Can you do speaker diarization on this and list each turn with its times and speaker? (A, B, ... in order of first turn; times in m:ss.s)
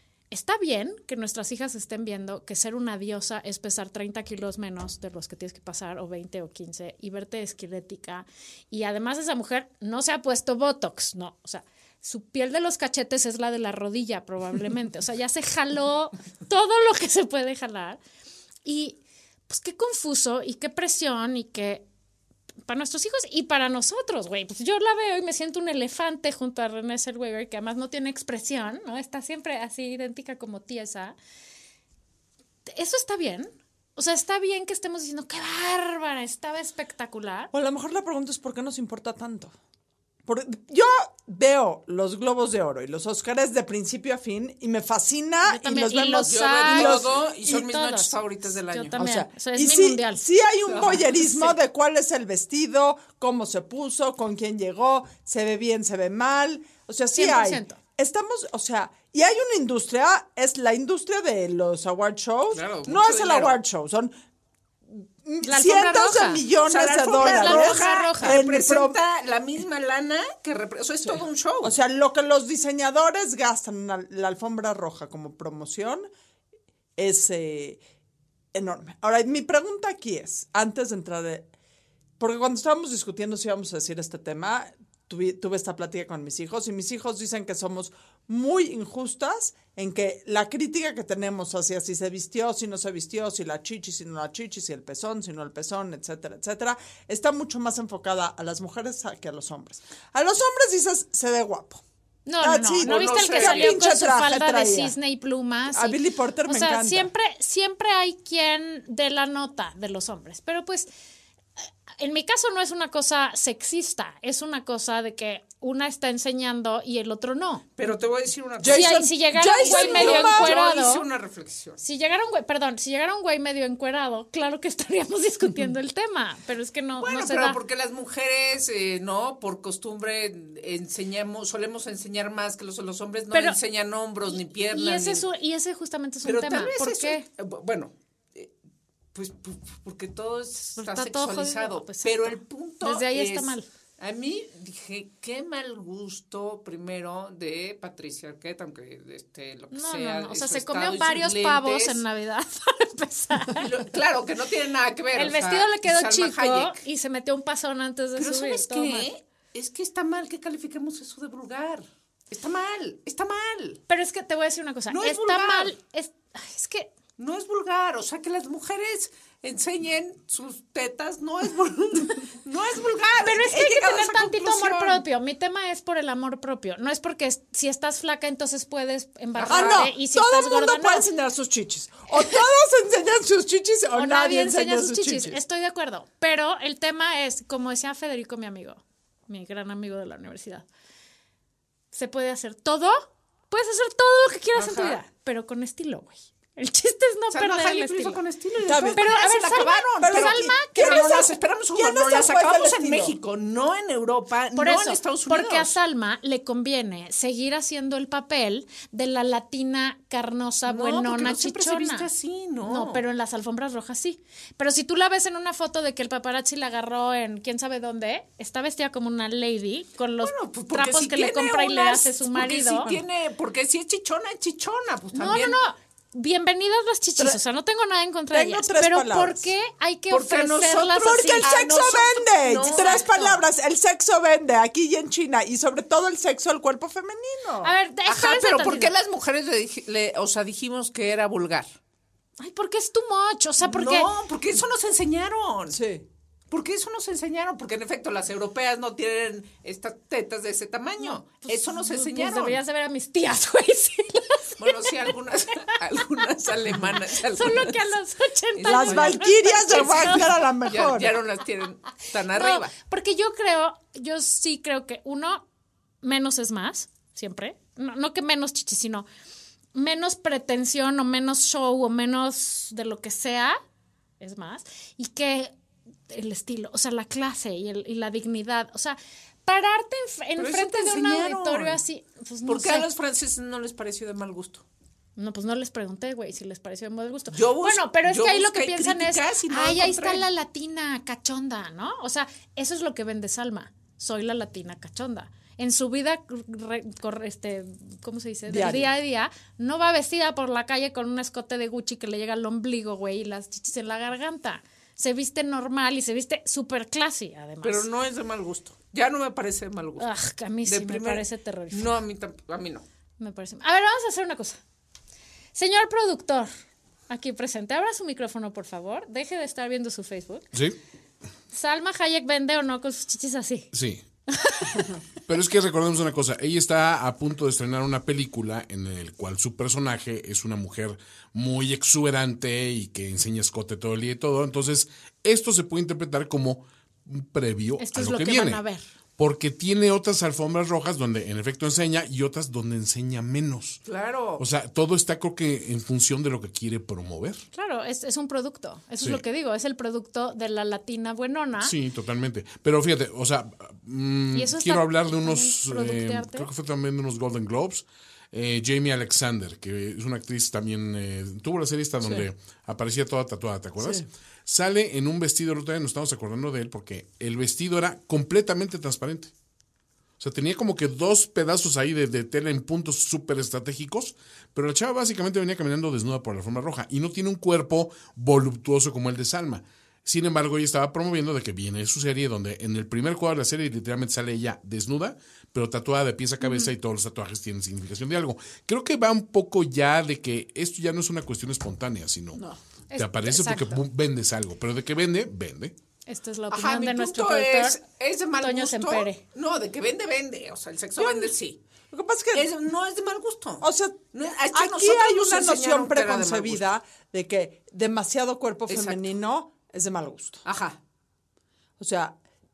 0:00.3-0:18.0 A
0:18.6-0:21.8 A
0:22.6-0:31.2 A
0:32.7-0:37.5 A
0:37.5-0:39.5 B
0:40.2-0:47.2 B
0:45.4-0:48.1 A
0:46.2-0:49.0 C
0:48.7-0:50.2 A
0:49.0-1:04.1 B
0:50.7-0:51.5 C
0:57.1-0:57.8 A
1:02.5-1:03.6 C
1:04.9-1:09.0 B
1:05.4-1:06.4 A
1:06.6-1:11.7 C
1:07.2-1:08.4 A
1:11.6-1:16.1 B
1:17.0-1:17.8 B
1:18.5-1:21.5 B
1:22.2-1:41.8 B
1:42.2-1:50.9 A
1:42.4-1:44.9 B
1:42.8-1:43.8 C
1:45.7-1:47.1 B
1:52.0-1:57.6 A
1:57.8-2:01.8 C
1:58.6-2:00.6 B
1:58.6-2:01.0 A
2:01.8-2:07.6 A
2:07.0-2:15.2 C
2:13.3-2:13.6 A
2:14.3-2:17.2 A
2:16.2-2:18.5 C
2:19.1-2:32.0 C
2:20.8-2:23.6 A
2:29.7-2:33.8 A
2:33.4-2:36.8 C
2:35.1-2:39.1 A
2:38.2-2:43.8 C
2:43.9-2:46.9 A
2:44.9-2:45.7 C
2:47.2-2:55.0 C
2:53.2-3:01.0 A
2:59.4-2:59.9 C
2:59.4-3:05.4 B
3:03.9-3:10.6 A
3:11.9-3:18.2 A
3:14.6-3:15.0 C
3:17.3-3:25.8 C
3:18.6-3:19.1 B
3:18.9-3:21.2 A
3:20.0-3:23.1 B
3:24.6-3:32.1 A
3:30.7-3:33.0 C
3:32.6-3:42.9 A
3:40.2-3:45.6 C
3:45.1-3:51.6 A
3:48.3-3:49.5 B
3:50.1-3:53.2 C
3:51.0-3:57.7 B
3:52.6-3:53.3 A
3:57.6-3:58.9 A
3:58.1-4:01.7 C
4:02.4-4:04.1 A
4:03.6-4:05.8 C
4:05.7-4:06.0 B
4:06.5-4:12.6 C
4:11.0-4:15.1 A
4:14.6-4:17.9 C
4:17.1-4:20.3 A
4:18.6-4:22.7 C
4:18.6-4:21.2 B
4:22.3-4:25.4 A
4:26.0-4:29.0 A
4:29.7-4:33.6 A
4:34.2-4:35.5 A
4:36.1-4:42.9 A
4:40.4-4:41.8 C
4:42.4-4:44.6 C
4:45.2-5:07.8 A
4:47.3-4:50.2 C
4:58.5-4:58.9 B
5:07.6-5:10.1 C
5:10.0-5:11.9 A
5:10.6-5:12.8 C
5:13.2-5:14.6 A
5:15.5-5:16.5 A
5:17.1-5:20.5 A
5:21.5-5:23.7 A
5:23.7-5:24.0 D
5:24.3-5:24.9 A
5:25.3-5:38.6 D
5:37.8-5:38.8 A
5:39.2-5:43.8 D
5:43.8-5:44.4 C
5:44.4-5:47.4 D
5:47.5-5:51.7 A
5:51.6-6:09.3 D
5:54.3-5:56.5 A
6:03.8-6:04.0 B
6:10.2-6:32.4 D
6:26.4-6:26.7 A
6:32.9-6:33.8 A
6:33.0-6:35.7 D
6:36.1-6:37.8 A
6:36.5-6:41.6 C
6:38.4-6:39.2 A
6:41.0-6:41.3 B
6:41.9-6:42.5 B
6:42.3-6:46.6 C
6:43.6-6:50.4 B
6:48.7-6:49.1 C
6:50.4-6:50.8 C
6:51.8-6:52.2 B